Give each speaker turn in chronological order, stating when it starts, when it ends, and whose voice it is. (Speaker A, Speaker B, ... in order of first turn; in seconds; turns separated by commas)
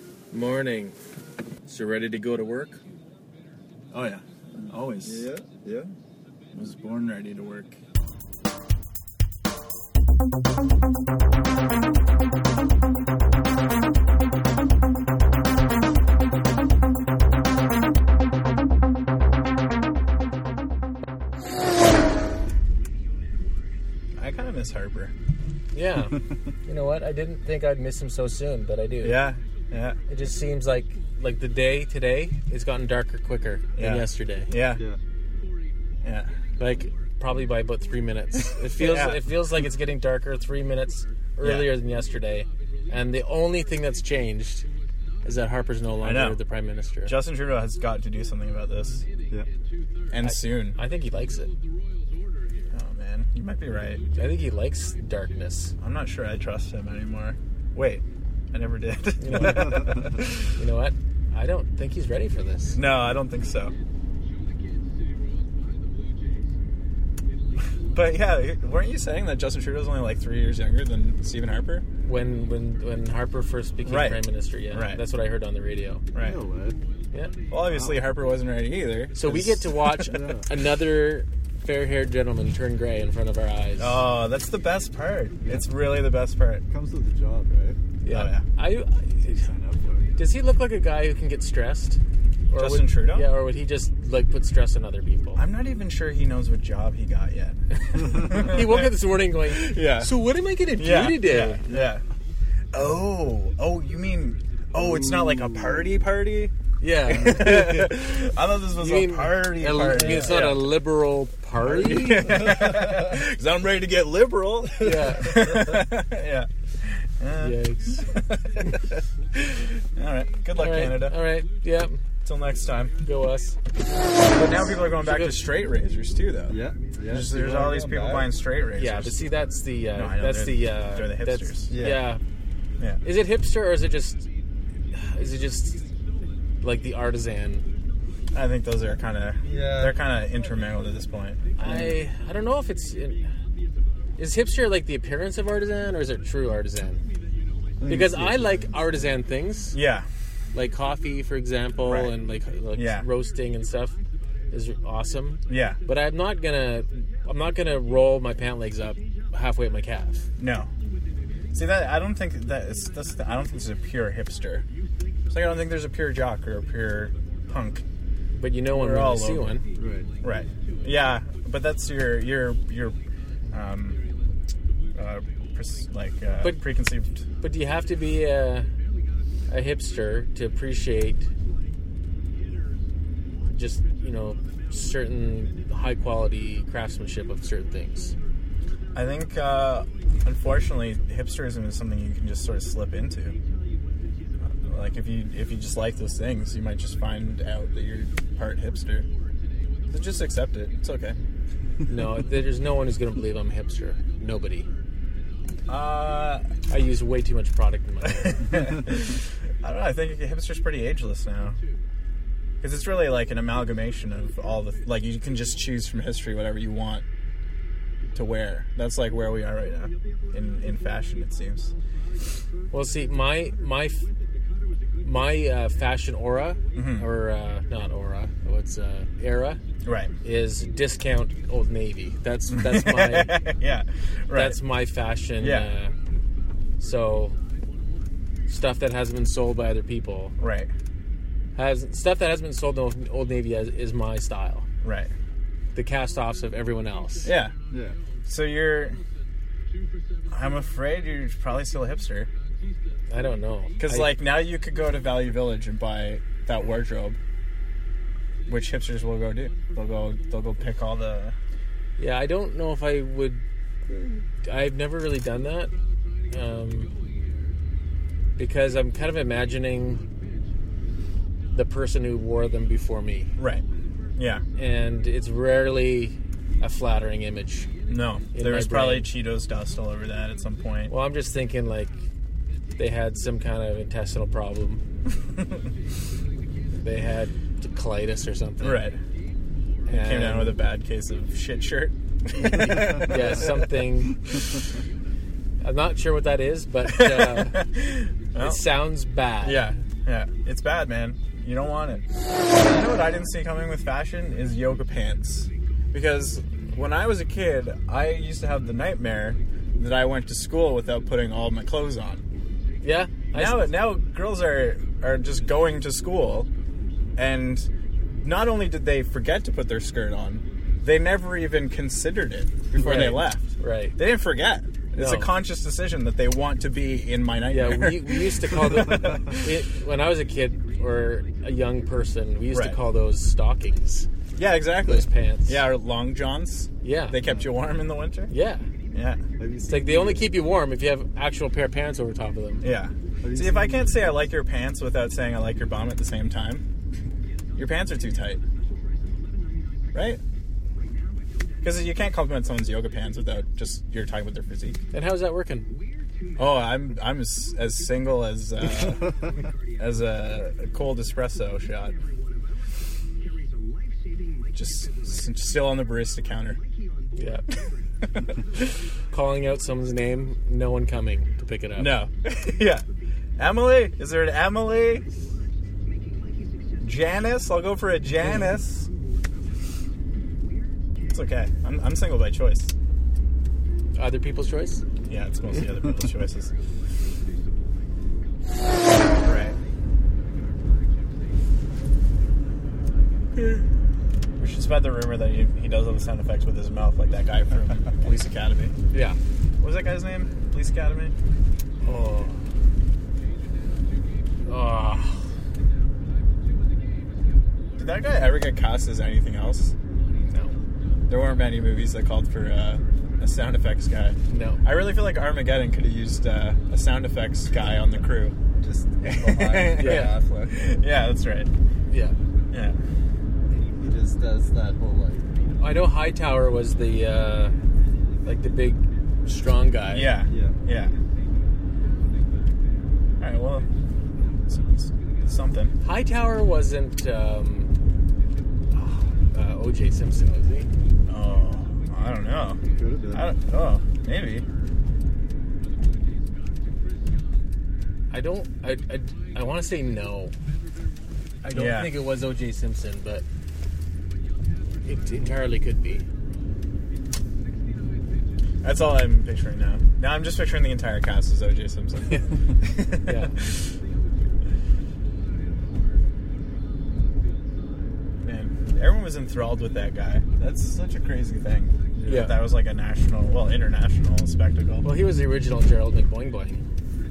Speaker A: 0.3-1.0, Speaker A: 1.6-2.8, Speaker B: 3.9-5.3, Speaker C: 5.0-5.9, Speaker B: 6.5-7.8, Speaker B: 24.2-25.1, Speaker A: 25.7-29.2, Speaker B: 29.0-30.0, Speaker A: 30.1-34.5, Speaker B: 33.8-34.8, Speaker C: 34.7-35.0, Speaker B: 36.0-36.3, Speaker A: 36.6-44.7, Speaker B: 38.8-39.2, Speaker B: 41.4-41.7, Speaker A: 45.2-47.2, Speaker B: 46.0-46.4, Speaker B: 47.0-49.0, Speaker B: 50.1-50.8, Speaker A: 50.2-51.5, Speaker B: 52.7-54.0, Speaker A: 54.1-55.8, Speaker B: 55.8-60.5, Speaker A: 59.2-62.8, Speaker C: 59.4-60.0, Speaker B: 62.8-63.7, Speaker B: 67.9-71.8, Speaker A: 72.0-76.0, Speaker B: 73.9-75.0, Speaker B: 76.1-76.4, Speaker C: 76.2-76.8, Speaker B: 77.5-80.2, Speaker C: 77.5-78.0, Speaker A: 79.2-84.0, Speaker C: 80.1-80.5, Speaker B: 83.8-86.6, Speaker C: 86.7-87.8, Speaker A: 88.0-89.5, Speaker B: 88.1-88.5, Speaker C: 89.2-90.1, Speaker A: 90.2-95.4, Speaker B: 92.5-93.3, Speaker B: 95.4-98.9, Speaker A: 97.7-101.6, Speaker B: 99.5-100.1, Speaker B: 100.8-102.0, Speaker C: 101.7-101.9, Speaker B: 102.7-106.5, Speaker A: 106.8-108.1, Speaker B: 107.1-110.7, Speaker A: 108.8-112.5, Speaker C: 109.9-110.4, Speaker B: 111.6-117.6, Speaker A: 114.8-115.8, Speaker A: 117.4-118.7, Speaker B: 119.3-121.2, Speaker A: 120.5-122.0, Speaker B: 122.2-122.9, Speaker A: 123.0-123.6, Speaker B: 124.3-129.3, Speaker A: 125.0-125.4, Speaker C: 126.5-128.3, Speaker A: 128.8-132.2, Speaker B: 130.0-131.7, Speaker C: 131.7-132.1, Speaker A: 133.0-134.3, Speaker A: 134.9-135.9, Speaker A: 136.6-137.7, Speaker B: 138.3-142.0, Speaker C: 139.4-140.0, Speaker A: 141.6-143.3, Speaker A: 144.2-147.0, Speaker B: 147.8-148.7, Speaker A: 147.9-149.8, Speaker B: 149.7-150.1, Speaker A: 150.5-154.0, Speaker B: 151.9-152.1, Speaker B: 152.7-153.1, Speaker A: 154.5-160.3, Speaker B: 155.5-155.8, Speaker B: 160.4-160.7, Speaker B: 161.5-164.7, Speaker B: 165.3-167.8, Speaker A: 168.4-169.6, Speaker B: 168.7-169.6, Speaker C: 169.8-170.1, Speaker B: 170.2-173.0, Speaker B: 173.5-174.0, Speaker B: 174.9-177.2, Speaker A: 177.4-178.7, Speaker A: 179.5-181.3, Speaker A: 183.5-188.2, Speaker B: 188.9-193.4, Speaker B: 194.4-199.1, Speaker B: 199.9-201.2, Speaker A: 201.9-204.7, Speaker B: 205.7-206.4, Speaker A: 206.7-208.8, Speaker B: 208.1-211.6, Speaker B: 212.6-217.1, Speaker B: 218.1-221.7, Speaker A: 222.7-224.1, Speaker A: 225.0-229.6, Speaker B: 226.8-227.1, Speaker B: 229.8-230.1, Speaker A: 230.2-233.4, Speaker B: 232.5-234.6, Speaker A: 234.3-235.9, Speaker B: 235.4-235.7, Speaker A: 236.8-237.4, Speaker A: 238.5-240.3, Speaker B: 240.4-240.7, Speaker A: 241.6-244.7, Speaker B: 244.8-245.1, Speaker A: 245.8-247.3, Speaker B: 247.2-247.5, Speaker C: 247.7-248.0, Speaker B: 248.3-249.0, Speaker B: 250.3-252.3, Speaker A: 253.1-254.2, Speaker B: 253.8-257.2, Speaker B: 258.5-261.4, Speaker A: 262.0-265.7, Speaker A: 266.3-266.9, Speaker A: 268.4-270.1, Speaker A: 271.5-273.3, Speaker B: 273.4-273.6, Speaker B: 274.2-274.4, Speaker A: 274.6-277.7, Speaker B: 277.9-280.9, Speaker A: 278.3-279.1, Speaker A: 280.9-282.0, Speaker A: 282.8-284.8, Speaker A: 286.8-288.9, Speaker B: 288.6-289.0, Speaker A: 289.9-290.6, Speaker B: 289.9-293.7, Speaker A: 292.4-294.3, Speaker A: 295.6-297.7, Speaker B: 296.9-298.6, Speaker A: 298.4-299.6, Speaker B: 299.4-302.0, Speaker B: 302.6-312.2, Speaker A: 302.6-302.9, Speaker A: 312.8-313.7, Speaker B: 313.3-316.5, Speaker B: 317.2-317.7, Speaker B: 318.2-329.5, Speaker A: 322.7-324.0, Speaker C: 322.8-323.1, Speaker A: 324.9-325.3, Speaker A: 327.5-334.1, Speaker B: 332.5-332.8, Speaker B: 334.4-338.3, Speaker A: 334.9-335.6, Speaker A: 336.8-337.2, Speaker A: 338.3-338.7, Speaker B: 338.9-339.2, Speaker C: 339.4-340.3, Speaker A: 339.7-342.6, Speaker B: 342.6-346.6, Speaker C: 343.2-344.1, Speaker B: 347.6-348.4, Speaker B: 349.9-350.2, Speaker B: 351.6-354.8, Speaker A: 354.9-355.7, Speaker B: 356.4-362.0, Speaker B: 364.5-366.6, Speaker A: 367.2-367.4, Speaker B: 368.0-368.7, Speaker A: 369.1-372.0, Speaker B: 371.8-372.9, Speaker B: 373.4-375.1, Speaker B: 376.8-378.9, Speaker B: 381.1-382.7, Speaker A: 384.0-384.8, Speaker B: 385.1-386.5, Speaker B: 389.2-389.6, Speaker B: 394.4-398.7, Speaker A: 398.9-399.2, Speaker B: 399.6-401.1, Speaker A: 401.8-402.3, Speaker A: 404.5-405.2, Speaker B: 407.8-409.7, Speaker A: 410.3-410.6, Speaker B: 411.1-418.4, Speaker A: 414.3-414.6, Speaker C: 418.6-420.6, Speaker B: 419.1-421.5, Speaker A: 419.8-420.1, Speaker A: 421.9-422.1, Speaker B: 422.5-422.8, Speaker C: 423.6-425.3, Speaker A: 425.6-427.6, Speaker A: 428.2-430.2, Speaker B: 429.9-430.9, Speaker C: 430.3-430.6, Speaker B: 433.2-433.7, Speaker B: 434.5-435.8, Speaker A: 435.8-437.7, Speaker A: 438.7-440.7, Speaker B: 441.1-442.6, Speaker C: 442.7-443.3, Speaker B: 443.1-444.5, Speaker A: 448.1-450.3, Speaker A: 451.4-453.2, Speaker B: 451.5-451.9, Speaker A: 454.8-456.1, Speaker B: 458.6-463.8, Speaker A: 463.0-463.4, Speaker B: 468.2-474.9, Speaker C: 472.0-472.2, Speaker A: 472.1-472.4, Speaker A: 474.8-476.6